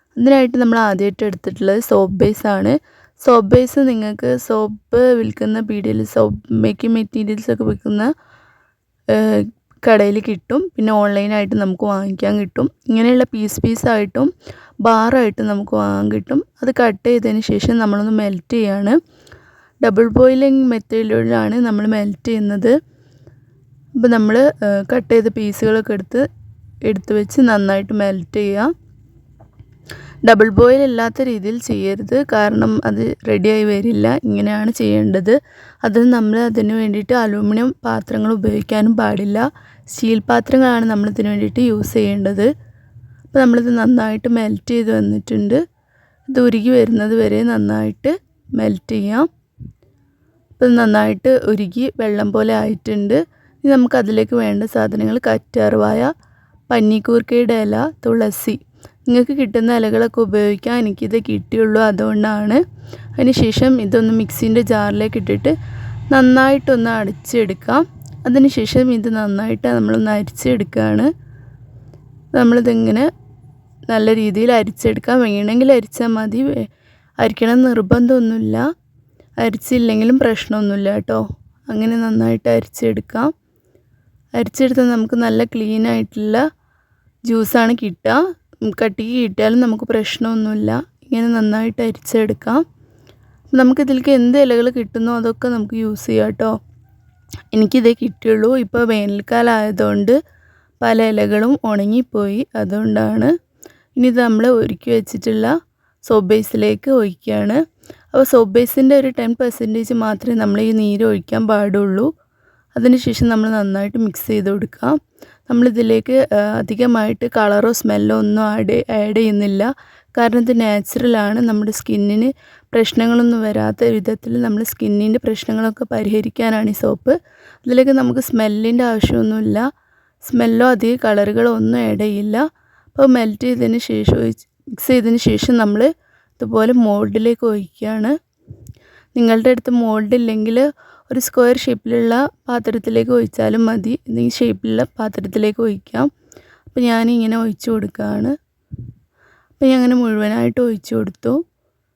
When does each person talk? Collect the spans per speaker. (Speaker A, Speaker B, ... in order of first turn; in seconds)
Speaker A: 0.2-8.1, 9.1-14.3, 14.8-19.0, 19.8-22.8, 24.0-26.3, 26.9-28.7, 30.3-42.5, 43.3-45.6, 46.3-49.3, 50.6-56.1, 56.7-62.6, 63.2-65.5, 66.1-71.1, 72.3-73.1, 73.9-76.6, 77.2-78.7, 79.4-83.3, 84.4-86.4, 87.3-92.6, 93.5-96.6, 97.5-100.2, 100.8-103.3, 104.0-105.5, 106.1-107.6, 108.1-112.1, 112.8-129.7, 130.2-138.2, 139.2-146.1, 146.7-148.3, 149.6-151.4